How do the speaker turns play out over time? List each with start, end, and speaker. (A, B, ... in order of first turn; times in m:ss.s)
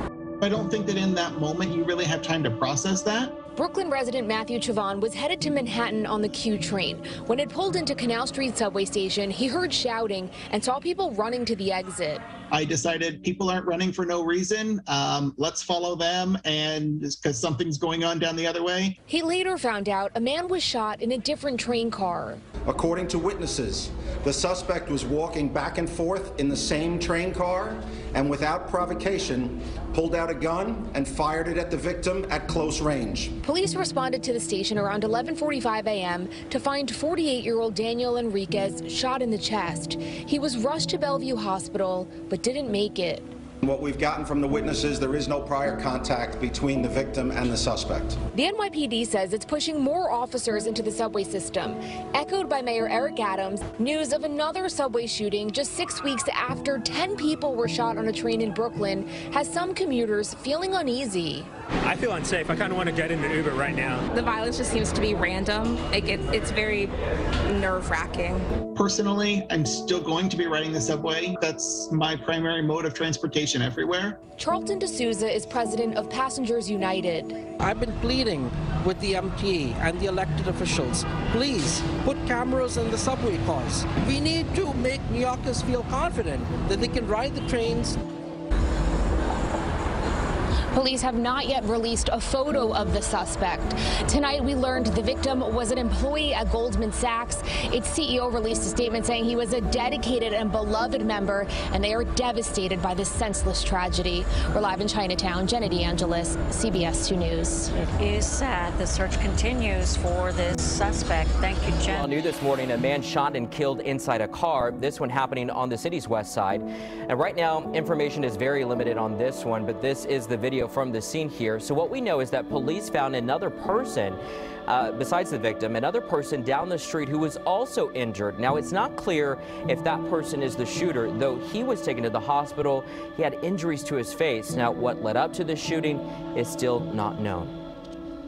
0:00.4-0:03.3 A
0:03.6-0:12.2 B
0:12.5-0:19.0 A
0:19.1-0:22.4 B
0:22.7-0:33.3 C
0:33.4-0:43.3 B
0:43.6-0:48.2 C
0:48.3-1:01.5 B
1:01.9-1:04.0 D
1:04.1-1:06.9 E
1:07.5-1:08.4 E
1:08.8-1:14.2 A
1:14.4-1:17.4 B
1:17.6-1:27.9 F
1:30.7-1:47.7 B
1:48.0-1:52.1 G
1:51.9-2:17.5 H